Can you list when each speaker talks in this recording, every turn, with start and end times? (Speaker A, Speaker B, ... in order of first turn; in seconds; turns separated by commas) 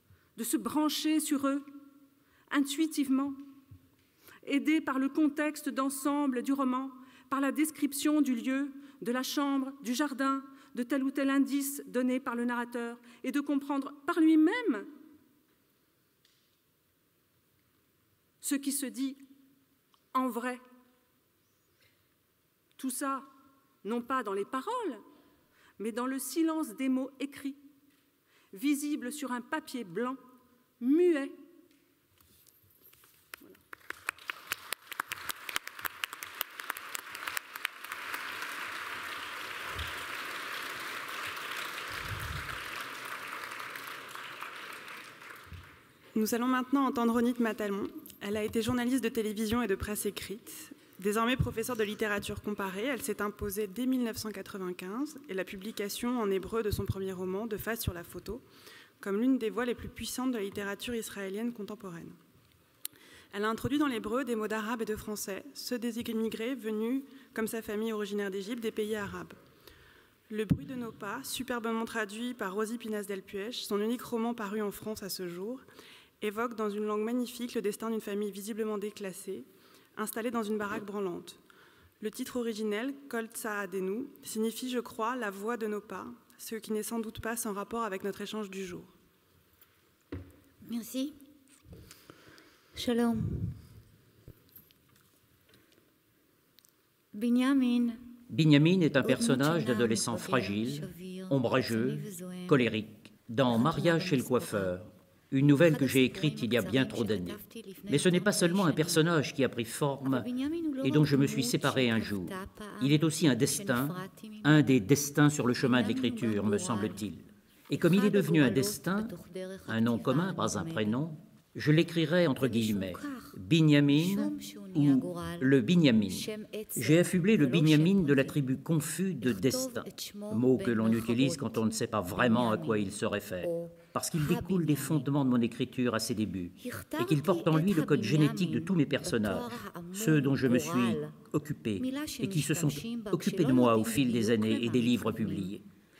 Speaker A: 0.3-1.7, Speaker A: 2.5-3.4, Speaker A: 4.4-14.9, Speaker A: 18.4-19.2, Speaker A: 20.1-20.6, Speaker A: 22.8-23.3, Speaker A: 23.8-25.0, Speaker A: 25.8-27.6, Speaker A: 28.5-30.2, Speaker A: 30.8-31.4, Speaker B: 46.1-58.4, Speaker B: 59.0-62.2, Speaker B: 63.3-69.4, Speaker B: 70.3-75.6, Speaker B: 76.2-81.4, Speaker B: 82.0-88.9, Speaker C: 90.6-91.2, Speaker C: 92.7-93.6, Speaker C: 97.1-98.1, Speaker D: 98.3-110.3, Speaker C: 99.0-102.7, Speaker C: 103.5-104.7, Speaker C: 105.5-109.1, Speaker C: 110.0-114.7, Speaker D: 110.8-119.1, Speaker C: 115.6-117.0, Speaker C: 117.8-121.0, Speaker D: 119.7-145.6, Speaker C: 122.4-123.3, Speaker C: 123.9-125.5, Speaker C: 126.1-128.4, Speaker C: 129.2-135.1, Speaker C: 136.6-141.2, Speaker C: 141.8-145.5